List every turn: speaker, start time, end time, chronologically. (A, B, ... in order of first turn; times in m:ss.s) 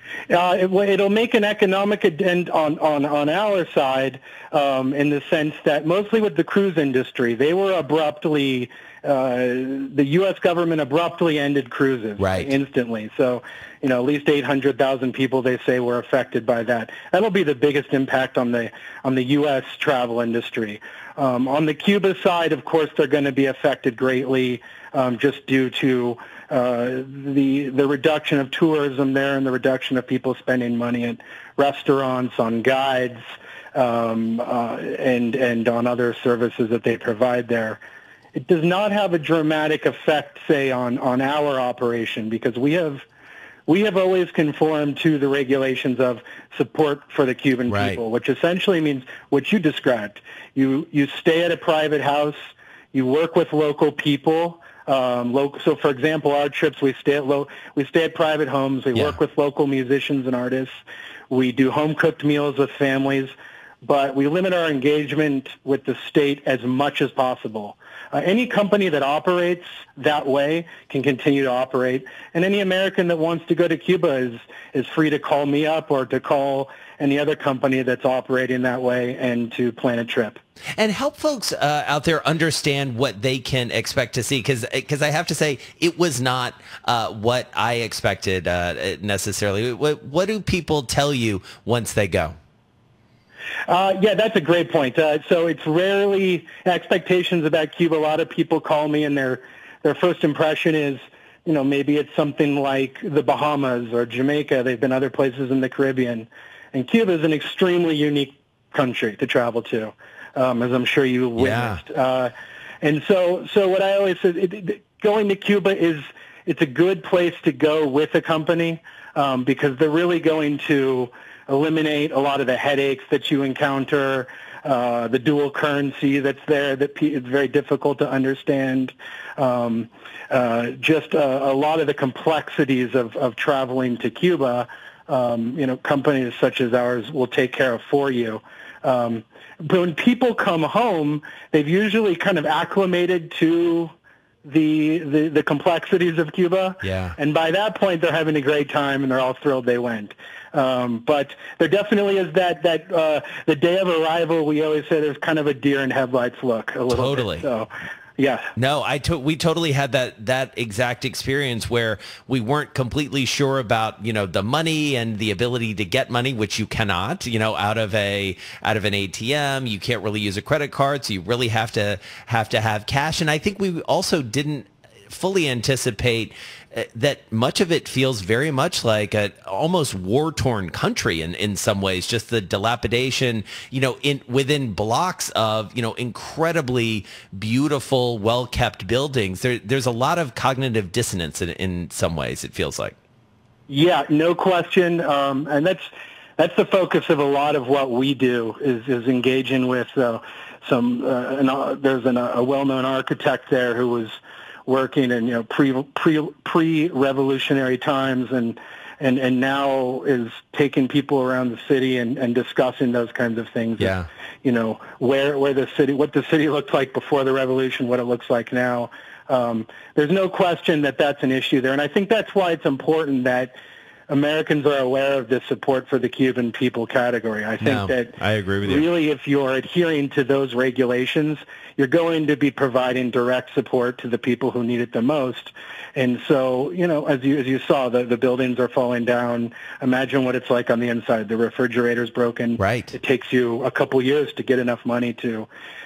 0:00.3-0:33.2 A
0:12.2-0:12.5 B
0:33.8-0:37.8 A
0:38.4-0:43.1 A
0:43.7-1:00.8 A
0:47.7-0:48.0 B
1:01.3-1:20.4 A
1:20.8-1:32.4 B
1:33.7-2:23.9 A
1:51.4-1:51.8 B
2:24.4-2:38.5 A
2:26.8-2:27.2 B
2:36.9-2:37.5 B
2:38.6-3:13.0 B
3:13.7-3:43.5 A
3:33.8-3:34.1 B
3:44.1-4:05.5 A
3:47.6-3:48.9 B
4:02.6-4:02.9 B